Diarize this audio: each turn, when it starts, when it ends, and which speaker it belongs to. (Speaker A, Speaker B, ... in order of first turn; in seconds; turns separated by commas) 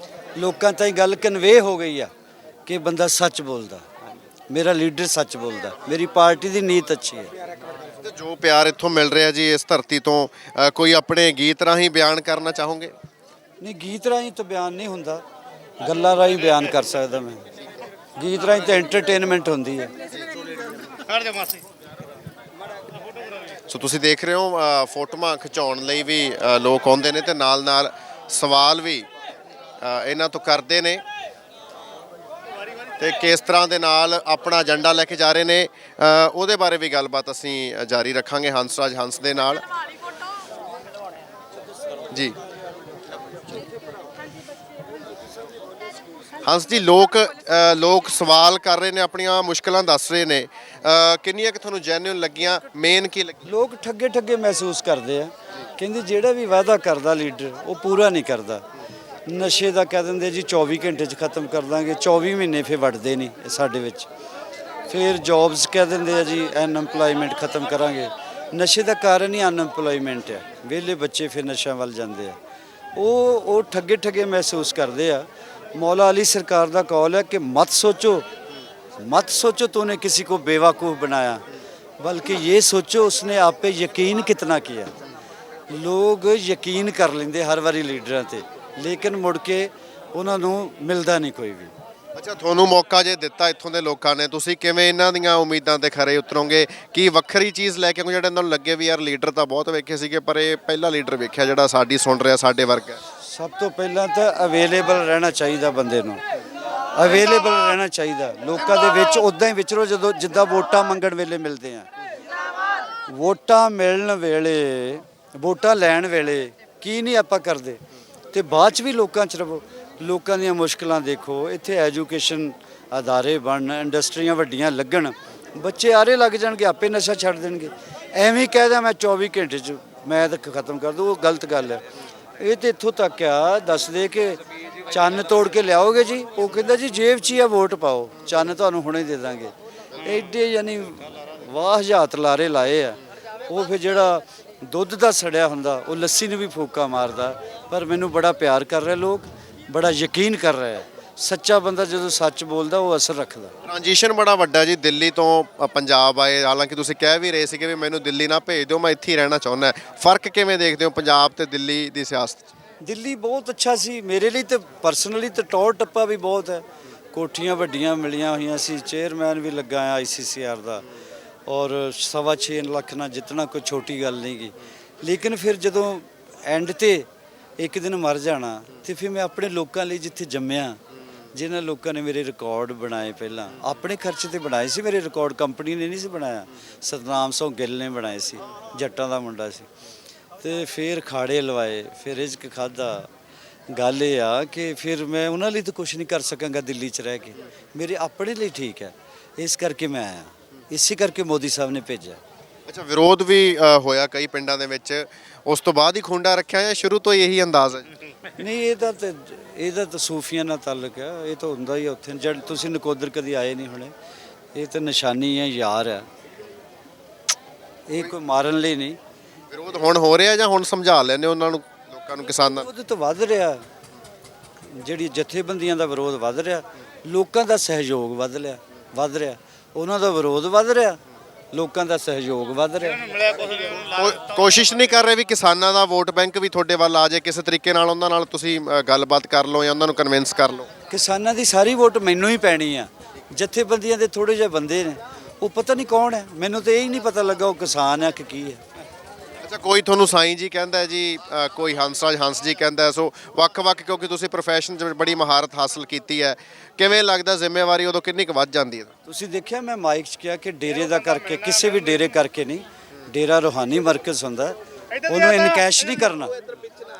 Speaker A: 0.3-2.1, Speaker A: 2.6-3.9, Speaker A: 4.5-7.3, Speaker B: 8.0-12.9, Speaker A: 13.6-15.2, Speaker A: 15.8-17.4, Speaker A: 18.1-19.9, Speaker B: 23.7-29.1, Speaker B: 29.8-31.0, Speaker B: 33.0-39.6, Speaker B: 46.4-53.4, Speaker A: 53.4-58.6, Speaker A: 59.2-64.1, Speaker A: 64.9-72.4, Speaker A: 73.0-78.3, Speaker A: 79.0-81.4, Speaker A: 82.0-84.9, Speaker A: 85.7-91.7, Speaker B: 92.2-103.0, Speaker A: 103.2-106.2, Speaker A: 106.9-111.9, Speaker A: 113.1-117.8, Speaker A: 118.3-131.8, Speaker A: 132.4-153.5, Speaker B: 153.6-162.5, Speaker A: 162.8-170.8, Speaker A: 171.5-177.1, Speaker A: 177.6-180.8, Speaker A: 181.3-189.7, Speaker A: 190.4-193.1, Speaker A: 193.7-202.2, Speaker B: 202.7-207.9, Speaker A: 208.3-213.9, Speaker A: 214.5-216.1, Speaker A: 217.9-219.0, Speaker B: 219.5-222.7, Speaker A: 222.6-223.6, Speaker A: 224.7-231.0, Speaker A: 231.5-233.4, Speaker B: 233.6-240.7, Speaker A: 240.9-248.6, Speaker B: 249.4-258.9, Speaker A: 259.1-264.5, Speaker A: 265.1-266.3